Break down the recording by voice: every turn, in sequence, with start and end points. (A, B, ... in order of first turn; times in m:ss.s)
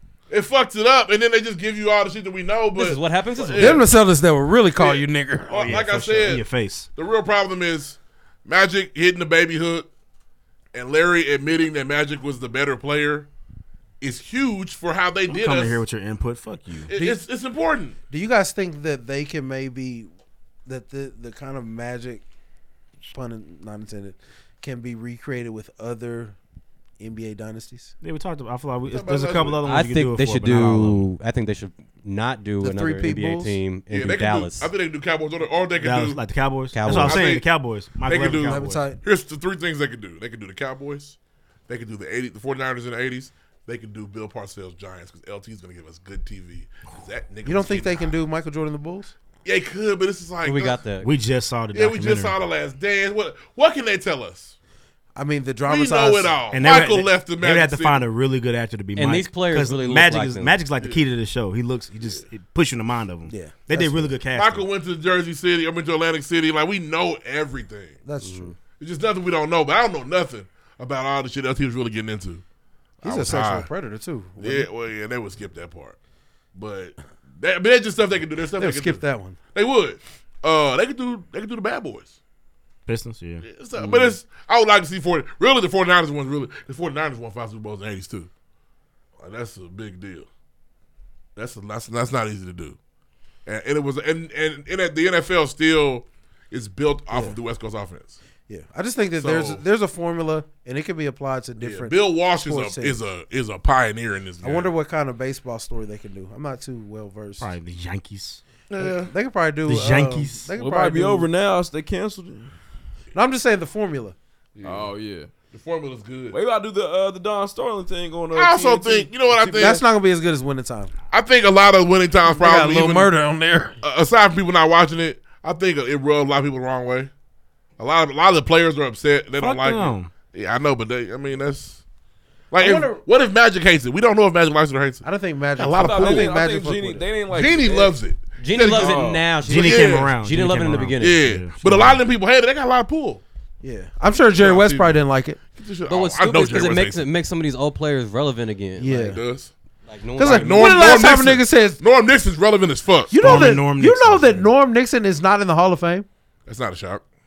0:00.3-0:03.9 A
0:02.7-0:03.8 B
0:03.5-0:05.7 C
0:04.8-0:06.4 A
0:05.5-0:06.9 D
0:07.0-0:09.9 A
0:10.7-0:13.3 A
0:14.0-0:15.8 A
0:15.3-0:16.9 D
0:16.9-0:18.0 A
0:16.9-0:17.2 C
0:18.1-0:20.1 C
0:20.6-0:22.2 C
0:23.1-0:26.4 C
0:27.0-0:27.9 C
0:28.0-0:31.1 D
0:28.9-0:29.7 A
0:29.6-0:34.7 B
0:32.6-0:33.6 C
0:33.9-0:36.2 A
0:35.8-0:38.9 D
0:36.7-0:37.3 B
0:36.9-0:37.4 A
0:38.0-0:41.2 A
0:38.4-0:39.0 C
0:41.7-0:48.1 A
0:47.4-0:49.1 C
0:49.4-0:50.8 A
0:50.4-0:51.1 B
0:51.0-0:52.4 D
0:51.7-0:54.5 A
0:55.2-0:56.4 C
0:55.6-0:58.0 A
0:56.5-1:04.7 D
0:59.0-1:00.6 B
1:03.3-1:04.2 C
1:04.3-1:08.0 A
1:08.0-1:08.6 C
1:08.2-1:08.5 B
1:08.7-1:12.4 A
1:13.0-1:13.7 A
1:13.0-1:14.7 C
1:14.4-1:16.0 A
1:16.5-1:19.0 A
1:18.6-1:19.4 C
1:19.5-1:22.2 A
1:22.9-1:24.0 D
1:23.4-1:28.3 A
1:29.2-1:30.3 A
1:31.4-1:32.8 A
1:33.4-1:38.2 A
1:37.1-1:37.4 C
1:38.5-1:43.0 C
1:39.2-1:39.6 A
1:41.6-1:44.7 A
1:44.4-1:47.5 C
1:47.4-1:48.4 D
1:48.7-1:49.1 A
1:48.8-1:51.3 C
1:49.6-1:50.5 D
1:50.6-1:52.5 E
1:53.1-1:54.2 C
1:54.5-1:54.9 A
1:54.6-1:55.3 E
1:55.5-1:56.4 A
1:56.3-1:59.6 E
1:58.3-1:59.8 A
1:59.5-2:00.9 C
2:01.1-2:03.1 A
2:02.2-2:03.8 C
2:03.8-2:07.1 A
2:07.8-2:11.8 A
2:09.4-2:10.1 D
2:12.5-2:15.0 A
2:12.6-2:13.0 C
2:15.0-2:17.0 C
2:15.6-2:16.4 A
2:15.7-2:17.9 E
2:17.3-2:20.1 A
2:18.4-2:21.2 B
2:18.6-2:19.2 E
2:19.4-2:22.0 D
2:21.0-2:23.2 A
2:23.6-2:25.4 C
2:24.2-2:27.0 A
2:25.9-2:29.2 B
2:28.8-2:29.2 C
2:29.0-2:29.5 A
2:29.8-2:31.2 B
2:30.2-2:31.8 C
2:30.3-2:33.2 A
2:33.1-2:36.0 C
2:33.1-2:34.5 D
2:36.4-2:37.0 A